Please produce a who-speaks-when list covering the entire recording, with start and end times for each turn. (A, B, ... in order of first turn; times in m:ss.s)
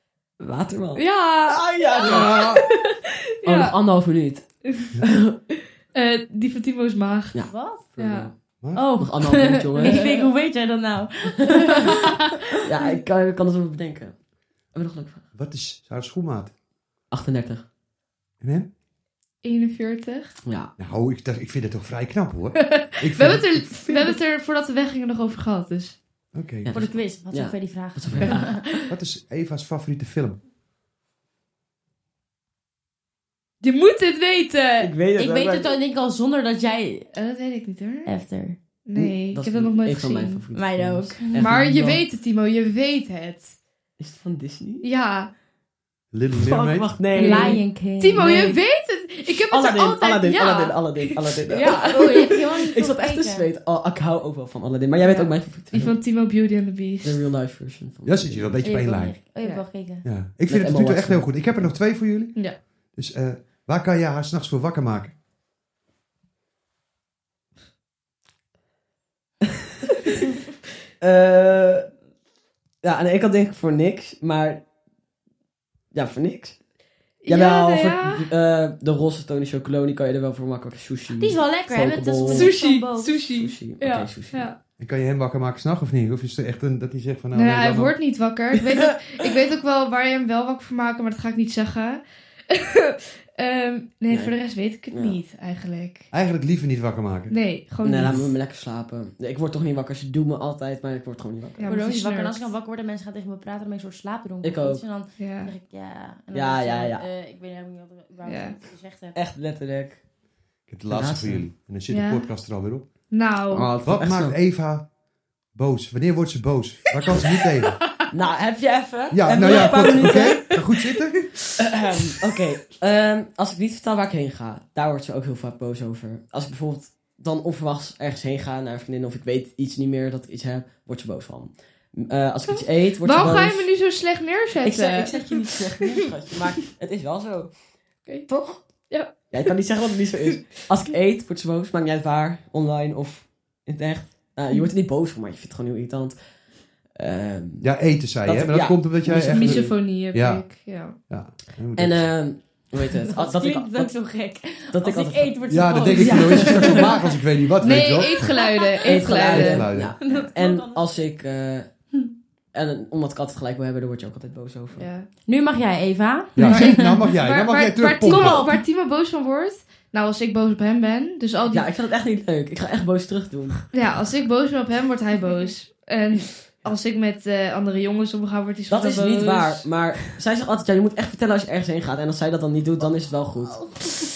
0:00.4-0:02.8 A
0:01.0-0:02.8 B
0:02.0-0:02.6 C
0:03.4-0:03.7 B
0:03.4-0:04.4 A
0:04.6-0:05.0 B
0:05.0-0:05.3 A
0:05.6-0:08.3 B
0:07.3-0:08.3 A
0:07.4-0:07.8 D
0:08.6-0:08.9 C
0:08.7-0:12.1 D
0:09.0-0:10.2 A
0:09.8-0:10.3 B
0:11.4-0:11.7 A
0:11.9-0:12.3 B
0:12.6-0:14.1 A
0:14.7-0:15.2 A
0:15.3-0:16.5 C
0:17.1-0:17.6 A
0:18.4-0:18.7 C
0:19.4-0:20.3 B
0:20.8-0:24.1 C
0:22.6-0:26.0 B
0:26.3-0:26.7 C
0:26.6-0:28.6 A
0:26.7-0:28.6 D
0:28.2-0:28.9 B
0:28.9-0:30.4 C
0:33.6-0:34.9 B
0:34.8-0:35.8 A
0:35.2-0:37.1 D
0:37.1-0:38.1 B
0:38.0-0:38.6 D
0:38.8-0:40.4 B
0:38.9-0:42.0 A
0:40.5-0:41.4 D
0:41.3-0:43.6 B
0:44.0-0:44.8 A
0:44.8-0:45.3 B
0:46.1-0:46.9 C
0:46.3-0:47.6 A
0:47.1-0:48.6 D
0:47.1-0:52.3 B
0:49.5-0:56.0 A
0:51.6-0:53.5 D
0:55.0-0:57.2 B
0:57.0-0:58.6 A
0:58.0-0:59.1 C
0:58.6-1:00.0 D
1:00.0-1:02.4 C
1:00.5-1:01.7 A
1:02.9-1:05.1 C
1:11.0-1:11.8 A
1:12.8-1:14.6 A
1:15.9-1:16.6 A
1:17.2-1:18.3 B
1:17.3-1:22.6 A
1:21.2-1:23.1 D
1:22.3-1:24.6 B
1:23.3-1:24.5 A
1:24.8-1:27.9 C
1:27.3-1:36.1 B
1:28.6-1:29.0 A
1:34.9-1:35.2 A
1:36.1-1:37.3 C
1:37.3-1:38.3 B
1:37.8-1:41.7 A
1:41.6-1:42.5 B
1:41.6-1:49.2 D
1:44.4-1:44.8 A
1:45.2-1:45.5 B
1:46.3-1:47.0 A
1:48.2-1:48.6 B
1:49.1-1:50.0 A
1:50.7-1:52.9 C
1:50.9-1:51.4 A
1:51.9-1:52.3 B
1:53.1-1:53.7 B
1:53.5-1:54.8 C
1:53.8-1:54.4 A
1:55.5-1:57.8 C
1:57.0-1:57.8 B
1:58.1-2:00.5 A
1:59.1-2:01.3 C
1:59.4-2:02.2 B
2:01.6-2:13.7 A
2:13.0-2:15.6 B
2:14.6-2:17.5 A
2:18.3-2:18.6 A
2:18.9-2:19.5 B
2:19.3-2:26.2 A
2:26.9-2:27.7 A
2:27.6-2:30.4 C
2:28.2-2:29.8 A
2:29.3-2:31.0 B
2:31.0-2:32.1 C
2:31.8-2:34.0 A
2:33.1-2:37.2 D
2:34.7-2:35.3 A
2:35.5-2:38.3 C
2:35.9-2:36.9 A
2:37.6-2:39.6 B
2:37.7-2:39.0 D
2:38.9-2:41.7 A
2:39.3-2:39.9 C
2:40.0-2:41.0 D
2:42.5-2:44.9 A
2:44.8-2:45.1 B
2:45.2-2:46.9 D
2:46.4-2:48.4 C
2:46.4-2:51.7 B
2:48.0-2:48.6 D
2:51.5-2:53.7 A
2:53.7-2:59.7 B
2:58.7-3:03.7 A
3:03.6-3:03.8 D